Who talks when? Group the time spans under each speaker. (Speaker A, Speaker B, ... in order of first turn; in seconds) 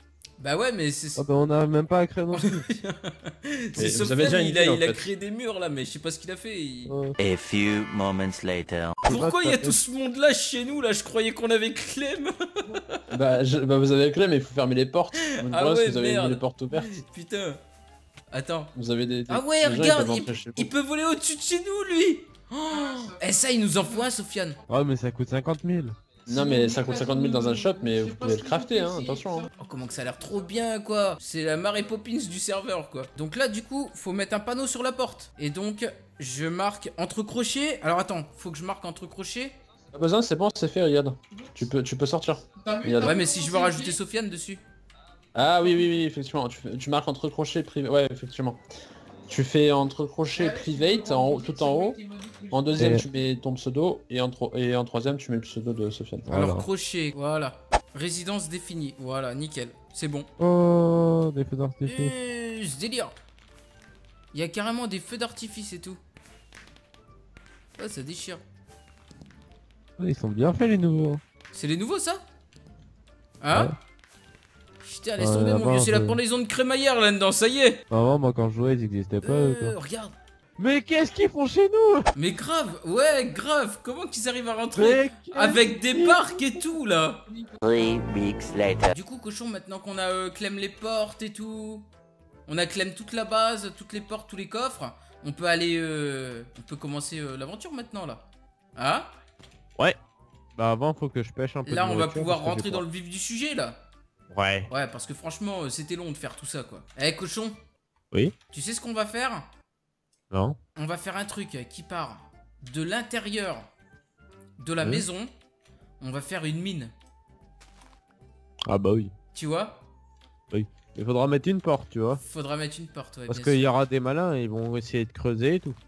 Speaker A: 0.4-1.3, 2.3-6.9, 9.0-13.0, 15.4-17.6, 18.3-18.7, 19.3-24.6, 29.6-39.5, 43.0-44.6, 56.3-60.3, 61.9-63.1, 64.3-66.0, 67.8-68.4, 71.5-72.2, 73.4-73.7, 74.8-77.8, 79.2-80.1, 82.1-87.2, 88.9-91.8, 92.5-99.1, 101.7-103.8, 104.7-107.5, 108.5-109.5, 110.8-113.7, 114.6-115.3, 116.0-116.9, 119.3-119.8, 122.2-123.6
Speaker B: 1.1-2.8, 6.9-7.2, 9.0-9.8, 24.7-25.9, 52.8-53.0, 56.2-56.6, 60.4-62.1, 70.0-71.2, 75.2-76.2, 77.9-79.7, 80.6-82.1, 84.7-86.5, 100.5-102.8, 104.3-104.7, 110.3-110.6, 114.8-115.0, 118.7-119.1, 120.5-122.2, 123.3-125.8
Speaker C: 3.8-5.1, 13.1-17.0, 18.7-20.7, 26.2-29.5, 39.9-43.1, 45.3-48.6, 49.3-56.3
Speaker D: 7.2-9.0, 87.6-88.9